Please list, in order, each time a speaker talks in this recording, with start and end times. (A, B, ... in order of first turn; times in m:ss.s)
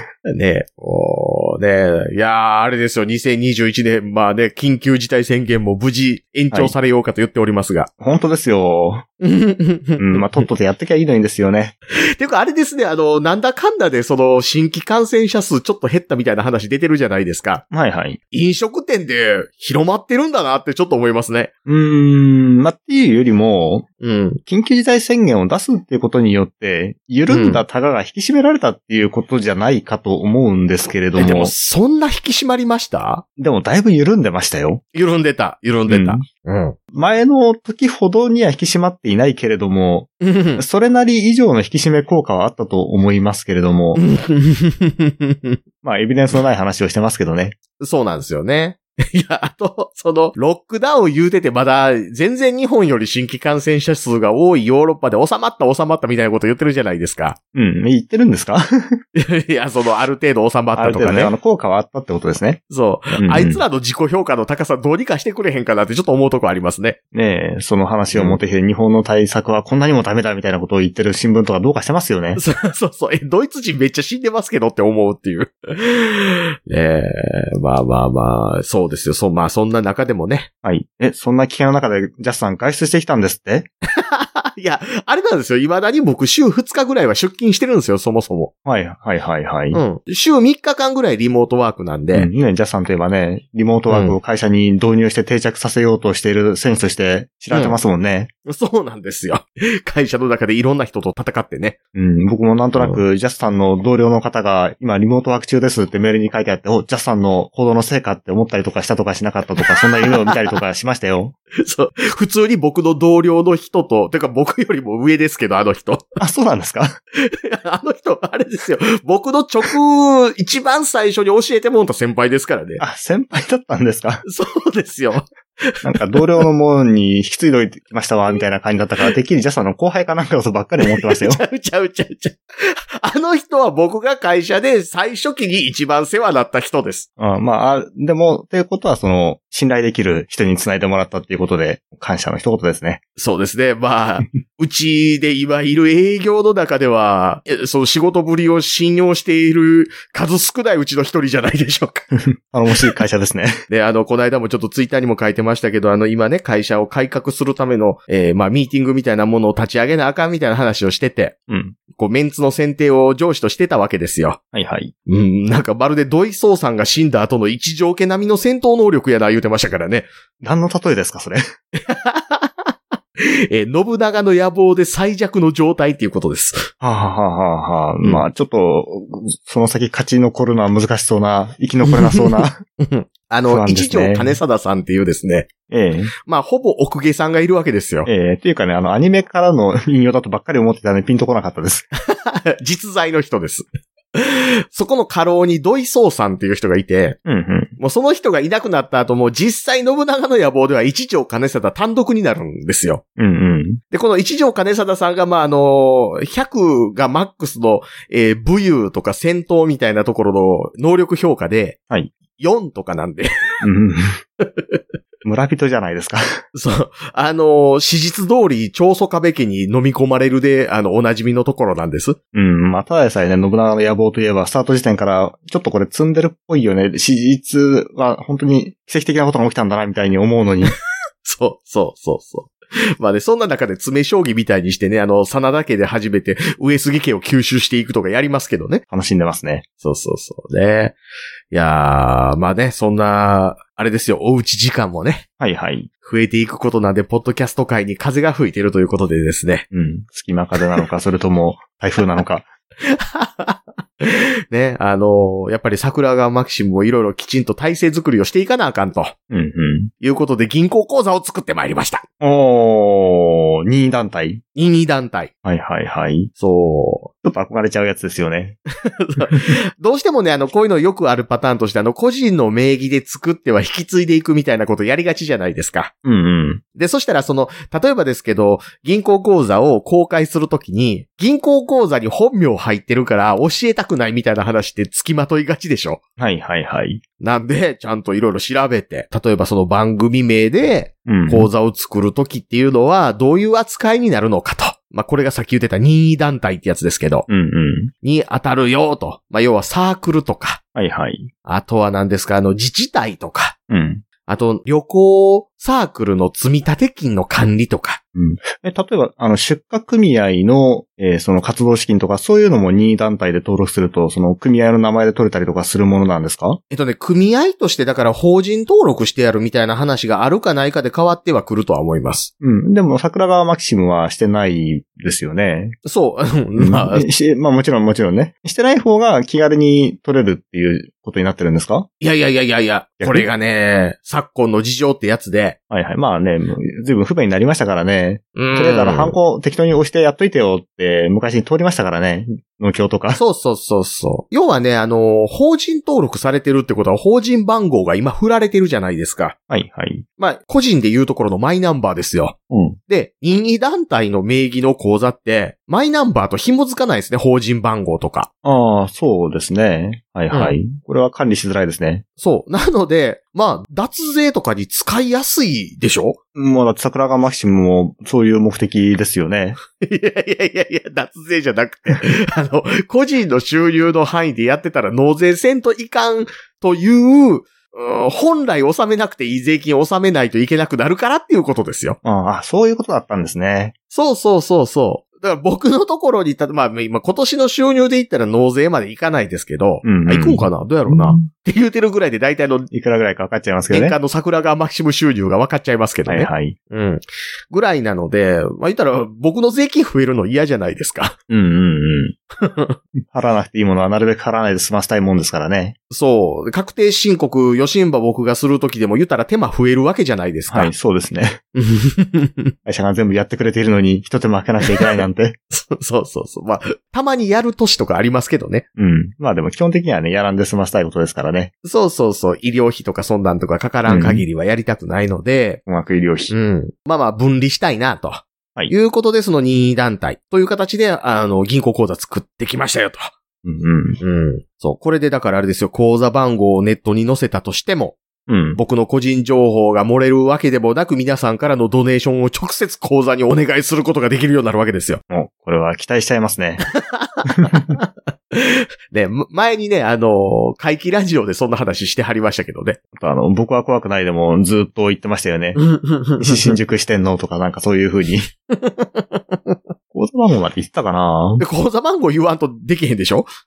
0:00.3-0:07.9 A
0:08.0-0:09.0 B
0:09.2-0:10.4 A
0:10.0-0:11.7 B
0:11.9-0:17.6 A
0:17.7-0:18.2 B
0:18.3-0:21.5 A
0:21.6-0:23.8 B
0:24.0-0:24.4 A
0:24.4-0:31.5 B
0:27.3-0:27.6 A
0:31.1-0:33.2 A
0:33.4-0:34.8 B
0:34.9-0:36.8 A
0:35.9-0:36.2 B
0:36.9-0:44.0 B
0:40.2-0:40.6 A
0:44.0-0:45.6 A
0:45.8-0:47.6 B
0:47.8-0:57.4 A
0:57.5-0:59.0 B
0:59.1-1:01.3 A
1:00.8-1:02.6 B
1:02.7-1:07.0 A
1:03.2-1:03.6 B
1:07.1-1:12.4 B
1:08.1-1:08.4 A
1:12.4-1:20.5 A
1:20.6-1:23.7 B
1:24.0-1:28.5 A
1:28.6-1:29.8 B
1:29.7-1:32.3 A
1:32.1-1:38.3 B
1:33.9-1:34.2 A
1:37.5-1:37.8 A
1:38.4-1:41.8 A
1:41.9-1:51.3 B
1:49.8-1:50.3 A
1:51.6-1:56.0 A
1:56.2-1:56.9 B
1:57.2-2:02.8 A
2:02.8-2:04.2 B
2:04.2-2:06.4 A
2:05.8-2:11.4 B
2:10.8-2:17.1 A
2:17.2-2:23.0 B
2:23.2-2:32.1 A
2:32.2-2:33.6 B
2:33.7-2:41.3 A
2:41.5-2:41.8 B
2:41.9-2:44.4 A
2:44.5-2:44.9 B
2:45.1-2:50.1 A
2:50.4-2:51.4 B
2:51.8-2:56.7 A
2:56.8-3:02.6 B
3:01.9-3:05.5 A
3:03.5-3:04.4 B
3:05.7-3:06.1 B
3:06.2-3:08.1 A
3:08.0-3:11.8 B
3:12.1-3:17.2 A
3:17.2-3:17.7 B
3:17.8-3:23.0 A
3:23.2-3:23.8 B
3:23.9-3:31.8 A
3:32.4-3:33.6 A
3:33.6-3:34.2 B
3:34.4-3:34.8 A
3:35.2-3:36.4 B
3:36.5-3:42.2 A
3:42.3-3:50.8 B
3:51.2-3:58.8 A
3:58.9-3:59.6 B
3:59.8-4:01.0 A
4:01.5-4:05.2 A
4:05.4-4:05.9 B
4:06.0-4:09.6 A
4:09.7-4:12.5 B
4:12.8-4:19.1 A
4:19.3-4:19.9 B
4:20.0-4:22.0 A
4:22.2-4:24.4 B
4:24.5-4:25.3 A
4:25.4-4:26.3 B
4:26.4-4:27.1 A
4:27.2-4:28.6 B
4:28.8-4:35.9 A
4:36.0-4:36.6 B
4:36.7-4:46.0 A
4:46.2-4:47.0 B
4:47.2-4:57.3 A
4:51.0-4:51.5 B
4:57.3-4:57.9 B
4:58.0-5:00.6 A
5:00.7-5:01.3 B
5:01.4-5:03.6 A
5:03.7-5:04.0 B
5:04.2-5:08.0 A
5:08.1-5:16.6 B
5:16.7-5:22.3 A
5:22.4-5:25.8 B
5:25.8-5:27.0 A
5:26.6-5:31.9 B
5:32.0-5:35.6 A
5:33.0-5:33.3 B
5:35.7-5:43.2 B
5:38.4-5:39.2 A
5:43.1-5:49.3 A
5:49.5-5:50.0 B
5:50.2-5:52.3 A
5:52.5-5:52.8 B
5:52.9-5:58.3 A
5:58.4-6:02.0 B
6:00.3-6:00.6 A
6:02.2-6:06.2 A
6:06.3-6:09.6 B
6:09.8-6:22.0 A
6:22.0-6:23.7 B
6:23.9-6:32.7 A
6:29.8-6:31.2 B
6:32.7-6:34.0 B
6:33.7-6:41.2 A
6:36.1-6:36.6 B
6:41.3-6:42.1 B
6:42.4-6:42.8 A
6:43.1-6:45.8 B
6:45.9-6:50.7 A
6:50.5-6:51.4 B
6:51.6-6:52.5 A
6:52.6-6:55.4 B
6:55.5-6:58.6 A
6:58.8-7:01.5 B
7:01.6-7:05.6 A
7:03.9-7:04.2 B
7:05.7-7:06.3 B
7:06.3-7:13.1 A
7:13.4-7:14.0 B
7:14.0-7:18.0 A
7:18.3-7:18.6 B
7:18.5-7:25.0 A
7:25.1-7:26.6 B
7:26.9-7:32.8 A
7:27.4-7:27.7 B
7:32.9-7:35.6 B
7:35.6-7:36.5 A
7:36.2-7:38.3 B
7:38.5-7:39.6 A
7:39.9-7:41.4 B
7:41.4-7:43.3 A